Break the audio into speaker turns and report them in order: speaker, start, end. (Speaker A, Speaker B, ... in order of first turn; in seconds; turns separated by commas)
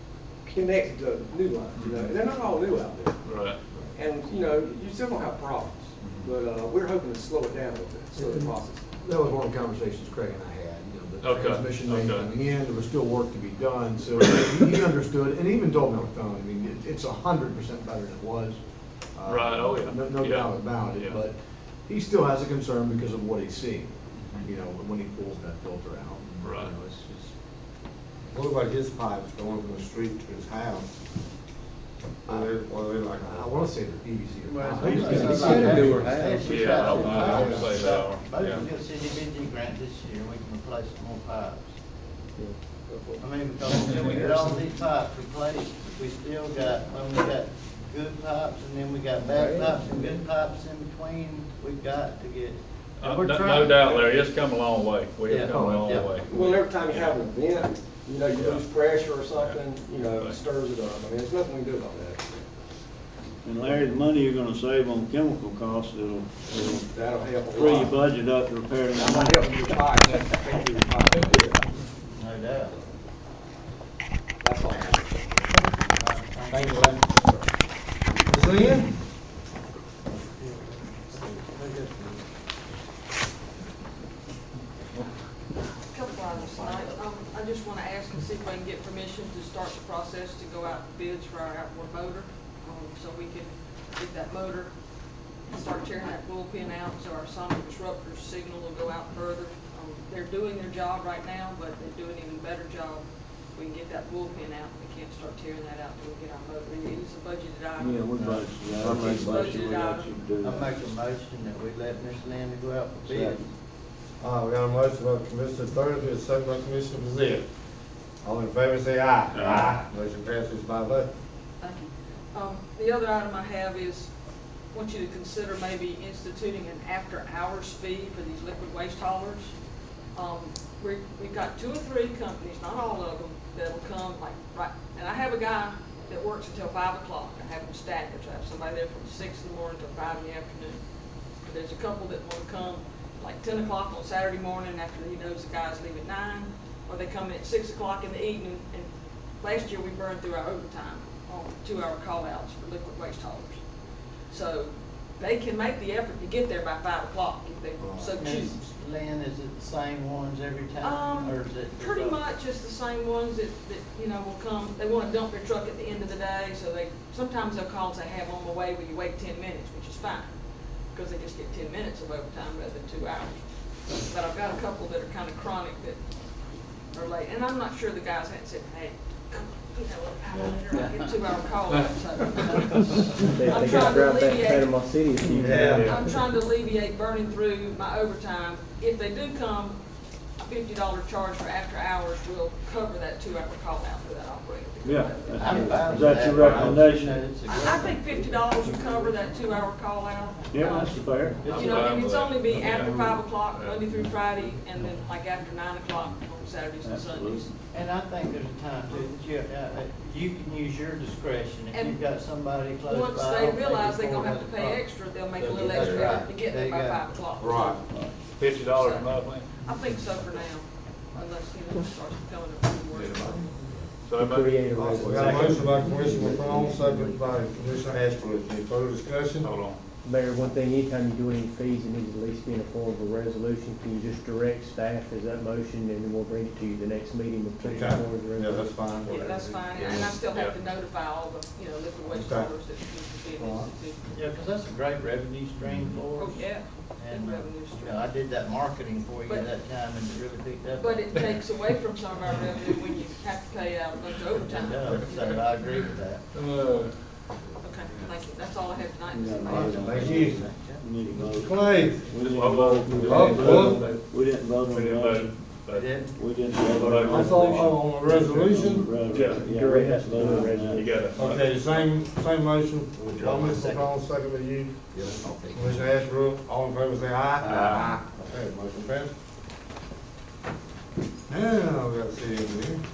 Speaker A: 0.4-3.1, Speaker B: 1.7-2.1, Speaker B: 3.2-3.6, Speaker A: 3.9-8.9, Speaker B: 6.0-6.3, Speaker C: 8.2-27.3, Speaker B: 11.2-12.4, Speaker B: 14.2-14.5, Speaker B: 19.2-21.2, Speaker B: 24.1-24.4, Speaker B: 26.4-26.7, Speaker D: 28.3-30.9, Speaker D: 32.2-33.5, Speaker C: 33.2-37.4, Speaker E: 34.4-41.8, Speaker F: 35.0-36.4, Speaker B: 36.3-38.7, Speaker D: 37.2-37.8, Speaker A: 42.9-43.2, Speaker E: 43.2-54.3, Speaker B: 43.7-44.2, Speaker F: 49.3-49.8, Speaker B: 53.0-56.3, Speaker E: 55.2-56.5, Speaker C: 55.5-56.0, Speaker A: 56.2-62.4, Speaker B: 56.9-57.1, Speaker B: 58.3-60.4, Speaker G: 63.4-66.9, Speaker A: 66.7-67.9, Speaker G: 67.5-69.8, Speaker A: 68.9-71.6, Speaker B: 70.0-70.3, Speaker B: 71.0-71.5, Speaker E: 72.1-72.7, Speaker A: 74.4-75.5, Speaker E: 75.7-77.3, Speaker D: 78.3-78.9, Speaker E: 80.4-82.2, Speaker H: 85.9-94.7, Speaker E: 86.3-87.0, Speaker H: 95.5-108.0, Speaker G: 107.8-110.8, Speaker H: 109.1-110.1, Speaker E: 110.4-113.5, Speaker G: 113.1-113.4, Speaker D: 114.2-117.5, Speaker D: 118.2-121.1, Speaker B: 119.3-119.8, Speaker H: 121.6-124.1, Speaker H: 124.7-129.5, Speaker H: 130.1-140.8, Speaker H: 141.4-153.6, Speaker H: 154.3-158.6, Speaker E: 158.2-162.2, Speaker H: 160.8-170.3, Speaker H: 170.9-176.0, Speaker H: 176.9-184.7, Speaker E: 180.4-181.1, Speaker F: 183.3-185.6, Speaker D: 185.4-185.9, Speaker B: 185.5-186.0, Speaker H: 185.7-189.8, Speaker H: 190.4-195.9, Speaker G: 194.8-197.3, Speaker E: 195.4-198.4, Speaker B: 196.3-196.8, Speaker H: 197.4-207.5, Speaker G: 200.5-201.5, Speaker E: 201.4-202.0, Speaker B: 201.4-204.1, Speaker G: 206.8-207.5, Speaker E: 207.7-217.1, Speaker H: 211.7-212.0, Speaker H: 212.8-217.8, Speaker D: 217.4-217.8, Speaker B: 218.4-219.5, Speaker H: 218.6-223.5, Speaker B: 224.0-225.6, Speaker F: 224.1-227.3, Speaker D: 224.7-229.5, Speaker B: 229.4-229.8, Speaker F: 230.0-238.7, Speaker D: 237.6-240.1, Speaker H: 239.0-244.0, Speaker B: 240.2-240.6, Speaker D: 242.1-242.5, Speaker D: 243.3-243.7, Speaker E: 244.1-251.2, Speaker H: 246.1-248.1, Speaker H: 250.7-255.4, Speaker E: 254.4-256.2, Speaker B: 256.3-257.0, Speaker H: 257.6-259.9, Speaker G: 259.1-265.5, Speaker E: 259.4-260.8, Speaker D: 259.7-260.4, Speaker D: 261.1-262.1, Speaker B: 262.2-264.0, Speaker D: 263.0-263.8, Speaker B: 264.6-266.0, Speaker E: 265.7-266.1, Speaker G: 266.0-270.9, Speaker B: 266.5-267.5, Speaker D: 266.9-268.9, Speaker B: 269.1-269.5, Speaker F: 269.4-270.9, Speaker B: 270.7-271.9, Speaker D: 271.1-279.1, Speaker E: 273.1-273.9, Speaker E: 275.2-275.6, Speaker E: 277.4-278.0, Speaker B: 277.4-277.9, Speaker D: 281.3-282.8